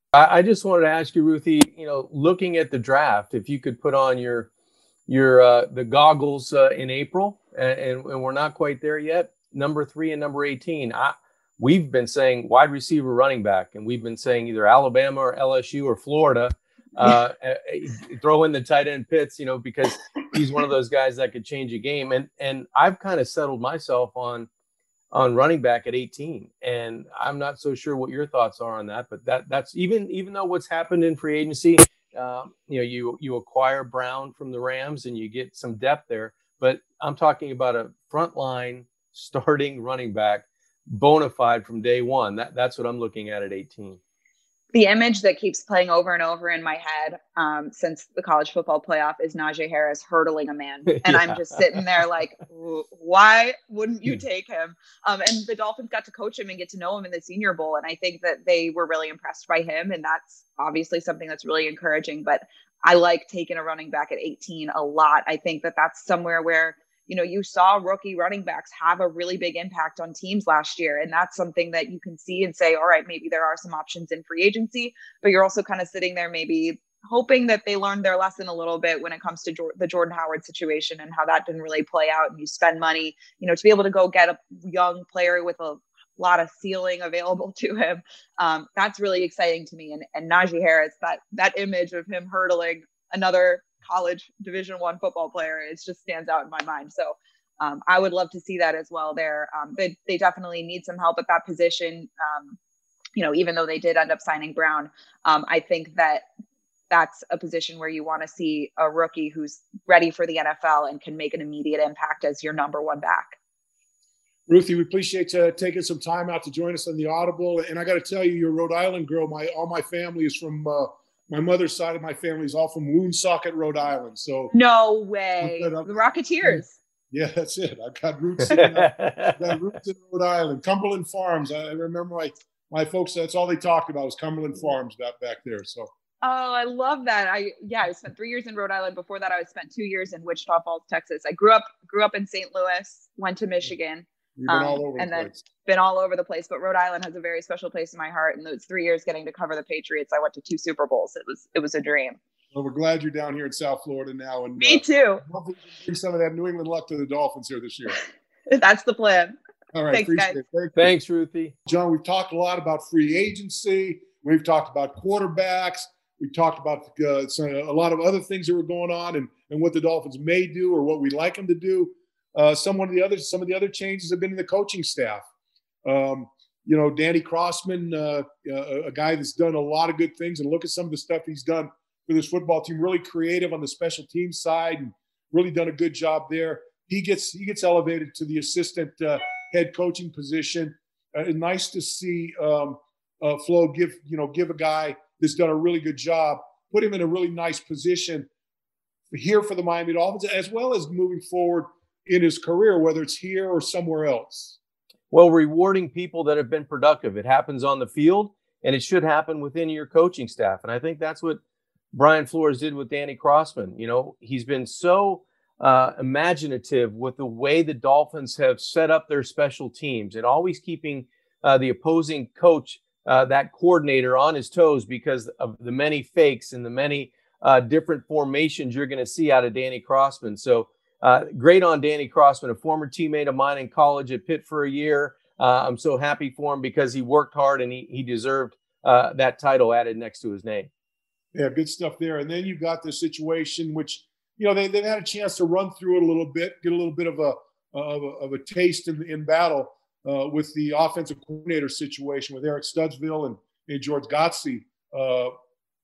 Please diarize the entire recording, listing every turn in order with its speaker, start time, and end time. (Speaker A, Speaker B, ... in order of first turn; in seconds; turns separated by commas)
Speaker A: 0.1-4.5, Speaker A: 5.1-24.5, Speaker A: 25.1-44.0, Speaker B: 44.7-102.6, Speaker A: 50.9-51.8, Speaker B: 103.2-106.2, Speaker B: 106.9-113.4, Speaker C: 114.5-124.5, Speaker B: 124.5-126.8, Speaker C: 125.4-135.9, Speaker A: 128.4-129.6, Speaker B: 136.2-152.2, Speaker C: 144.4-145.4, Speaker C: 152.5-158.0, Speaker B: 154.6-155.2, Speaker B: 158.5-159.3, Speaker C: 159.7-160.9, Speaker B: 159.9-160.3, Speaker A: 160.8-161.5, Speaker C: 161.7-175.3, Speaker C: 175.8-198.3, Speaker C: 199.1-204.6, Speaker A: 205.1-211.4, Speaker A: 211.9-240.7, Speaker C: 241.3-255.3